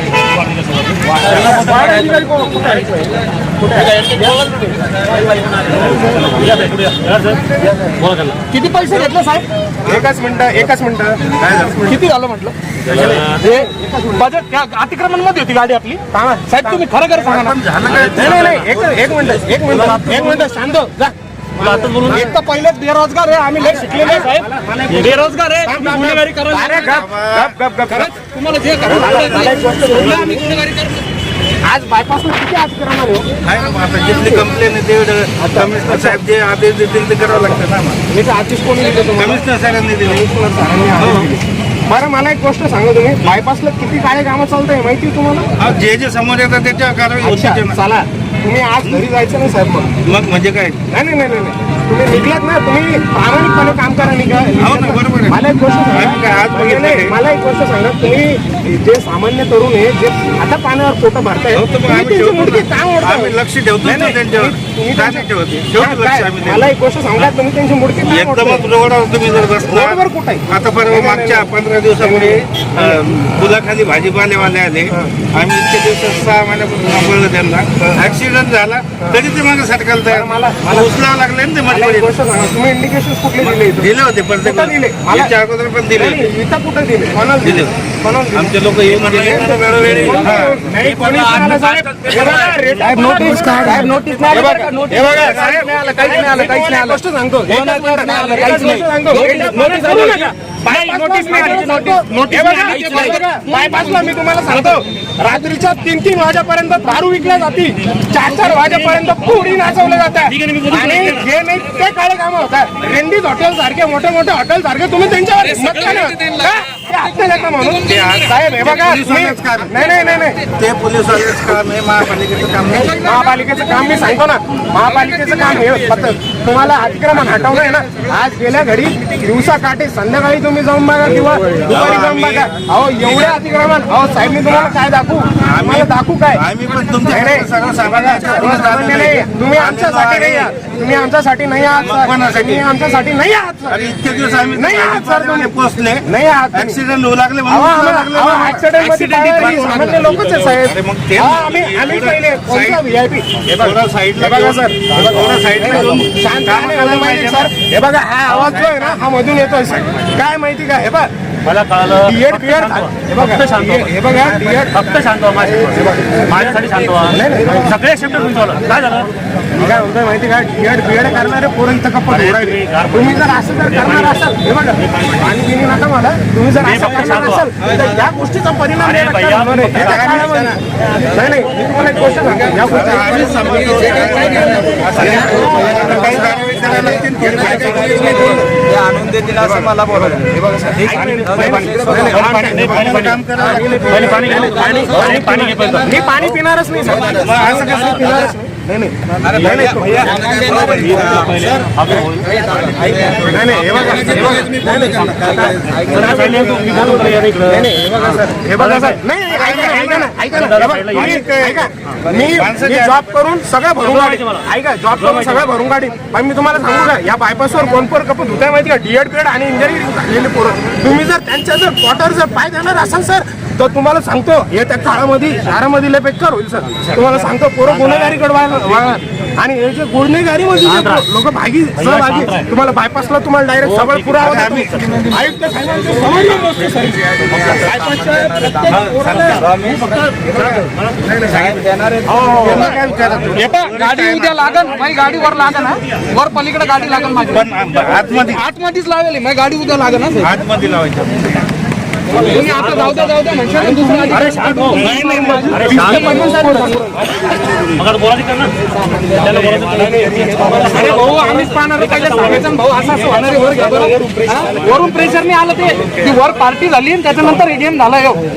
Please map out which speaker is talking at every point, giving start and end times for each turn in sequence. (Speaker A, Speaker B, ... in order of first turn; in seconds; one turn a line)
Speaker A: 0.3-2.1
Speaker B: 1.2-4.3
Speaker C: 1.6-2.2
Speaker C: 3.8-6.5
Speaker A: 5.7-8.4
Speaker C: 8.5-9.5
Speaker B: 9.8-12.0
Speaker D: 11.3-11.9
Speaker C: 11.9-12.6
Speaker B: 12.9-14.3
Speaker A: 13.0-13.4
Speaker C: 13.2-17.5
Speaker B: 16.1-16.8
Speaker D: 17.2-19.1
Speaker A: 17.9-18.7
Speaker B: 18.1-22.4
Speaker A: 19.5-20.5
Speaker A: 21.6-22.3
Speaker C: 22.0-27.0
Speaker B: 23.6-28.1
Speaker A: 24.9-25.2
Speaker D: 26.8-27.6
Speaker C: 27.9-31.0
Speaker B: 28.8-30.6
Speaker D: 29.0-29.5
Speaker B: 31.6-33.3
Speaker D: 33.4-38.0
Speaker B: 34.1-34.5
Speaker B: 35.4-36.2
Speaker B: 38.1-39.4
Speaker D: 39.1-40.3
Speaker B: 40.0-45.5
Speaker D: 41.0-41.3
Speaker D: 45.6-47.8
Speaker B: 47.2-49.9
Speaker D: 50.0-50.8
Speaker B: 50.9-68.6
Speaker D: 54.6-55.4
Speaker D: 55.9-57.2
Speaker D: 61.5-66.7
Speaker D: 68.0-82.1
Speaker B: 69.6-71.5
Speaker B: 72.0-73.0
Speaker B: 80.1-80.9
Speaker B: 81.7-83.9
Speaker D: 83.4-86.3
Speaker B: 84.4-85.3
Speaker B: 85.9-120.4
Speaker D: 87.4-87.7
Speaker D: 88.3-90.6
Speaker C: 89.8-90.3
Speaker C: 91.0-105.3
Speaker A: 101.3-103.2
Speaker A: 108.6-109.0
Speaker A: 110.3-111.2
Speaker C: 115.4-118.2
Speaker D: 117.8-119.7
Speaker D: 120.5-123.0
Speaker C: 122.7-124.1
Speaker B: 123.0-136.4
Speaker C: 124.8-126.1
Speaker D: 131.6-133.4
Speaker D: 134.5-134.7
Speaker D: 135.4-140.5
Speaker B: 137.1-143.9
Speaker D: 141.8-142.7
Speaker D: 143.7-152.9
Speaker B: 144.5-146.8
Speaker B: 147.5-161.1
Speaker C: 148.9-149.5
Speaker D: 153.4-157.5
Speaker A: 161.4-163.9
Speaker B: 161.9-164.8
Speaker A: 164.7-169.1
Speaker B: 165.7-166.2
Speaker B: 167.1-167.7
Speaker B: 169.5-188.5
Speaker A: 172.1-174.2
Speaker A: 174.8-175.2
Speaker A: 176.6-177.5
Speaker A: 178.8-179.9
Speaker D: 179.7-180.6
Speaker D: 182.6-188.4
Speaker E: 185.4-185.9
Speaker E: 187.1-192.2
Speaker B: 189.4-200.4
Speaker A: 191.0-192.8
Speaker D: 191.9-194.7
Speaker A: 193.9-196.0
Speaker D: 196.9-198.3
Speaker E: 199.2-206.0
Speaker C: 199.8-200.8
Speaker A: 200.8-202.4
Speaker D: 202.8-203.1
Speaker B: 203.1-239.5
Speaker A: 204.1-211.2
Speaker D: 209.3-210.0
Speaker D: 210.9-211.7
Speaker D: 212.3-213.1
Speaker A: 213.8-214.4
Speaker A: 214.9-215.5
Speaker D: 226.8-228.2
Speaker A: 230.6-231.0
Speaker A: 231.8-232.4
Speaker A: 233.6-234.9
Speaker D: 234.2-234.8
Speaker E: 237.3-240.0
Speaker D: 238.7-239.5
Speaker A: 239.8-241.0
Speaker E: 241.1-242.3
Speaker D: 241.2-241.7
Speaker A: 242.1-242.7
Speaker D: 242.3-244.8
Speaker C: 243.3-250.3
Speaker D: 247.2-248.4
Speaker D: 250.2-251.4
Speaker B: 252.1-257.6
Speaker C: 252.1-256.8
Speaker A: 254.1-256.2
Speaker A: 257.5-258.5
Speaker A: 259.1-260.6
Speaker B: 259.7-264.4
Speaker C: 260.0-268.2